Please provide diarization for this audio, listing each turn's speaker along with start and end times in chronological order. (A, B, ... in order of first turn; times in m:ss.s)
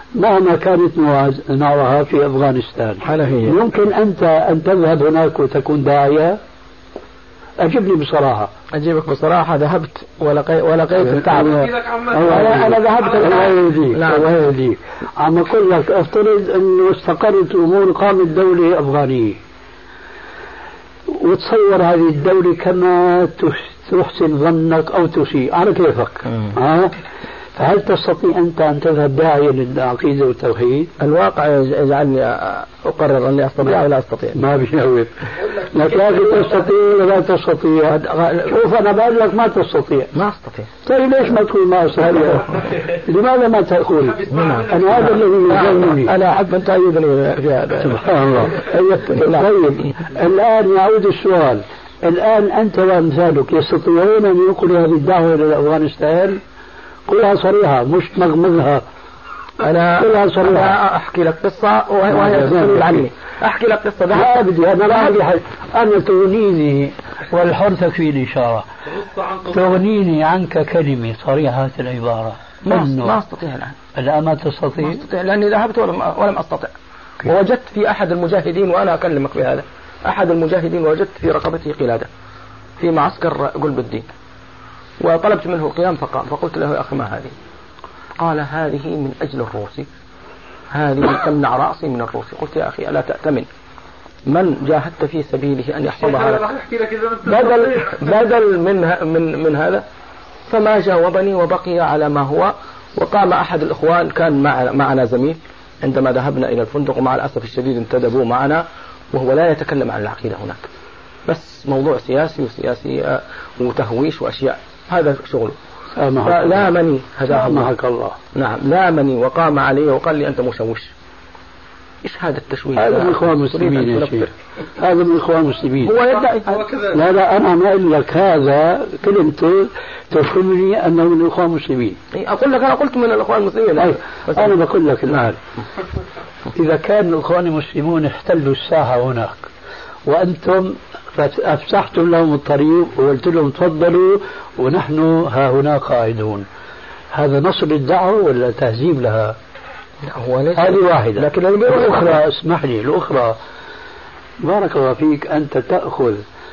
0:00.2-0:06.4 A
0:03.0-0:03.6 B
0:07.6-0:08.5 A
0:08.7-0:11.6 B
0:11.0-0:19.4 A
0:11.4-0:12.5 C
0:12.2-0:14.3 B
0:13.0-0:13.4 C
0:21.1-0:27.0 A
0:26.3-0:26.6 B
0:27.6-0:30.9 A
0:31.0-0:34.4 B
0:34.4-0:40.1 A
0:35.9-0:36.5 C
0:37.9-0:38.6 B
0:40.1-0:40.7 B
0:40.8-0:46.1 A
0:44.1-0:45.4 C
0:44.3-0:49.9 B
0:47.8-0:56.4 A
0:57.1-0:58.8 A
0:59.6-1:05.2 B
1:00.0-1:00.8 A
1:02.1-1:03.0 A
1:04.1-1:08.7 A
1:09.5-1:13.2 A
1:12.6-1:13.8 B
1:14.0-1:15.0 A
1:14.8-1:16.7 B
1:17.2-1:22.1 B
1:22.8-1:24.1 B
1:25.0-1:27.4 B
1:28.2-1:29.9 B
1:30.7-1:33.5 B
1:34.3-1:36.5 B
1:36.0-1:38.2 C
1:37.2-1:39.9 B
1:40.5-1:50.6 B
1:51.3-1:55.6 B
1:55.9-1:56.7 A
1:56.2-1:57.7 B
1:57.3-1:58.2 A
1:58.4-2:00.9 B
2:02.0-2:04.3 B
2:02.8-2:06.0 A
2:05.8-2:06.7 B
2:06.3-2:07.0 C
2:06.9-2:12.0 A
2:12.1-2:14.6 B
2:13.8-2:15.4 A
2:16.6-2:19.4 A
2:20.1-2:26.5 A
2:27.1-2:29.4 A
2:30.0-2:32.2 B
2:30.6-2:33.4 A
2:34.4-2:36.2 A